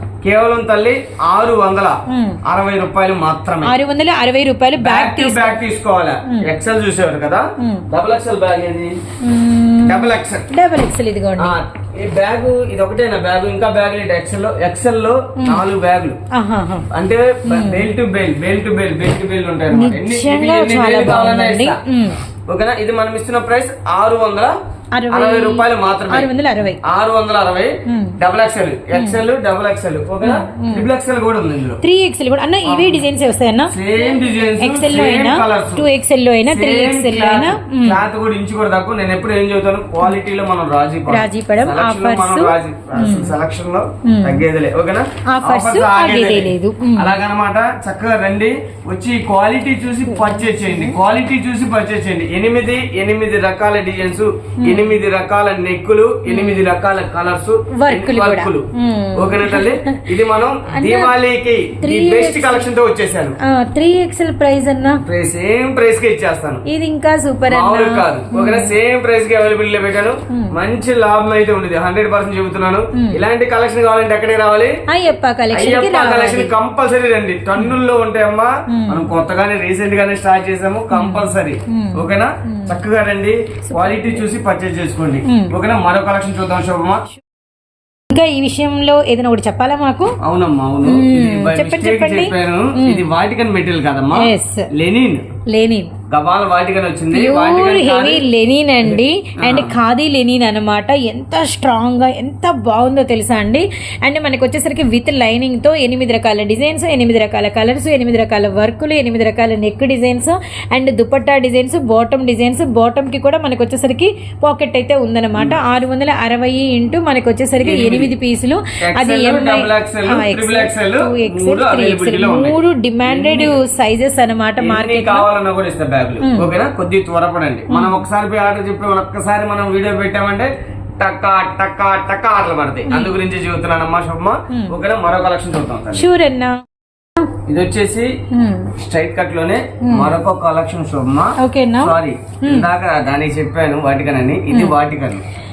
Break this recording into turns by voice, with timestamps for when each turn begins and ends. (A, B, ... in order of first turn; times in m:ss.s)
0:00.2-0:03.7 A
0:02.1-0:02.4 B
0:03.6-0:05.6 B
0:04.8-0:09.0 A
0:07.6-0:07.8 B
0:09.2-0:11.6 B
0:09.8-0:10.5 A
0:11.4-0:16.2 A
0:15.4-0:15.6 B
0:16.3-0:16.9 B
0:16.9-0:21.8 A
0:17.4-0:17.9 B
0:19.7-0:22.2 B
0:22.5-0:24.5 A
0:24.9-0:26.8 B
0:25.1-0:31.8 A
0:27.8-0:28.1 B
0:28.9-0:29.2 B
0:30.2-0:30.9 B
0:31.8-0:34.0 B
0:32.6-0:33.0 A
0:33.7-0:35.8 A
0:34.6-0:38.0 B
0:36.5-1:03.4 A
0:41.1-0:43.4 B
0:44.0-0:44.4 B
0:45.3-0:47.1 B
0:50.0-0:51.0 B
0:54.6-0:55.0 B
0:56.2-0:56.7 B
0:57.7-1:00.1 B
1:00.7-1:01.1 B
1:01.8-1:02.7 B
1:03.4-1:05.0 B
1:05.0-1:06.6 A
1:06.6-1:08.7 B
1:07.5-1:14.8 A
1:14.9-1:16.5 B
1:15.5-1:27.0 A
1:18.7-1:19.1 B
1:20.9-1:22.8 B
1:23.7-1:24.2 B
1:25.2-1:25.5 B
1:28.1-1:30.1 B
1:30.2-1:35.3 A
1:30.8-1:33.0 B
1:34.1-1:34.7 B
1:35.5-1:35.9 B
1:36.1-1:38.2 A
1:37.1-2:05.3 B
1:38.8-1:39.7 A
1:57.6-1:58.1 A
1:58.8-2:03.5 A
2:04.6-2:16.1 A
2:06.2-2:06.5 B
2:07.7-2:08.0 B
2:12.8-2:13.1 B
2:14.5-2:14.8 B
2:15.9-2:16.6 B
2:17.5-2:18.1 A
2:18.3-2:18.7 B
2:18.7-2:25.2 A
2:19.8-2:20.2 B
2:21.4-2:22.7 B
2:24.5-2:24.8 B